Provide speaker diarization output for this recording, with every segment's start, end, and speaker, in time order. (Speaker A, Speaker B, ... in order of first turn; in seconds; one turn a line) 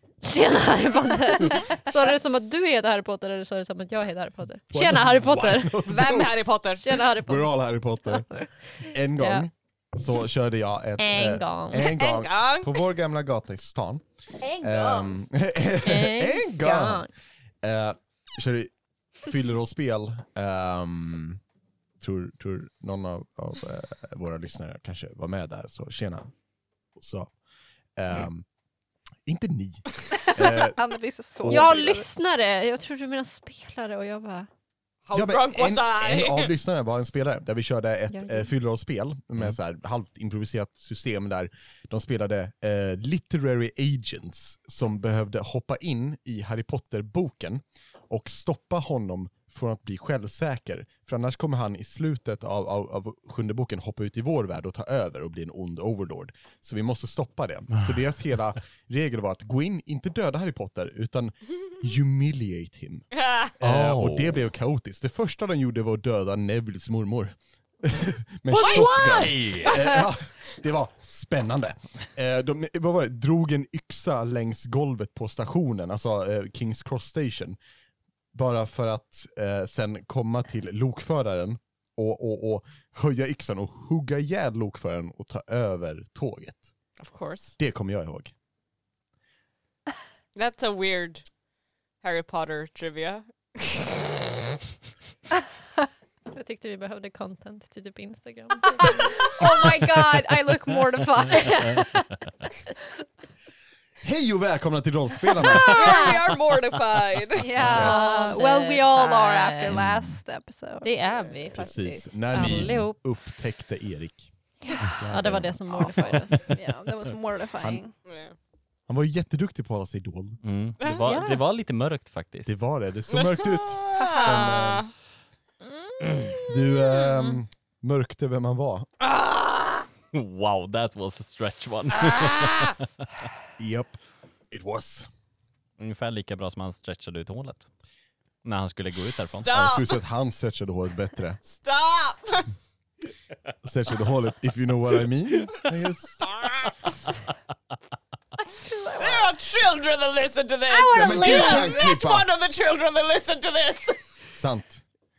Speaker A: 0.2-5.8
Speaker B: 4.7-6.4
Speaker C: 5.9-7.0
Speaker A: 6.8-7.5
Speaker B: 7.2-14.0
Speaker A: 8.0-9.5
Speaker A: 11.0-11.9
Speaker C: 11.8-12.8
Speaker D: 14.4-15.2
Speaker B: 14.6-17.1
Speaker A: 15.8-17.1
Speaker B: 17.6-21.4
Speaker B: 22.0-26.3
Speaker B: 27.0-27.3
Speaker B: 28.0-28.5
Speaker B: 29.3-30.8
Speaker D: 30.2-32.1
Speaker B: 31.4-31.8
Speaker A: 31.5-34.5
Speaker C: 35.1-36.5
Speaker B: 35.1-77.6
Speaker A: 38.2-38.5
Speaker C: 63.1-63.5
Speaker E: 63.6-64.4
Speaker E: 68.5-70.0
Speaker C: 68.6-69.0
Speaker B: 78.3-86.7
Speaker C: 87.0-87.5
Speaker B: 87.6-88.3
Speaker C: 90.3-91.2
Speaker C: 92.0-94.0
Speaker A: 96.3-99.8
Speaker D: 98.8-101.9
Speaker A: 101.3-102.5
Speaker B: 104.0-106.1
Speaker C: 105.4-107.5
Speaker A: 105.5-106.2
Speaker D: 107.4-111.0
Speaker B: 107.6-108.0
Speaker A: 107.7-109.8
Speaker B: 109.8-110.1
Speaker A: 110.8-113.0
Speaker B: 111.5-114.3
Speaker E: 112.4-112.8
Speaker D: 114.6-114.9
Speaker B: 114.8-116.4
Speaker A: 115.1-116.6
Speaker D: 115.7-117.9
Speaker C: 118.1-118.3
Speaker B: 118.9-120.4
Speaker E: 120.4-122.6
Speaker C: 120.8-121.1
Speaker D: 121.0-121.4
Speaker B: 122.5-124.9
Speaker C: 123.1-124.9
Speaker D: 123.9-124.7
Speaker A: 125.8-127.1
Speaker B: 126.5-128.9
Speaker E: 129.0-132.9
Speaker B: 133.6-135.1
Speaker E: 135.8-137.7
Speaker E: 138.4-139.5
Speaker C: 139.4-140.0
Speaker B: 139.5-141.4
Speaker C: 141.5-142.5
Speaker B: 143.6-146.3
Speaker D: 148.4-149.3
Speaker C: 149.0-154.0
Speaker D: 150.7-152.0
Speaker B: 150.9-152.3
Speaker B: 154.3-154.8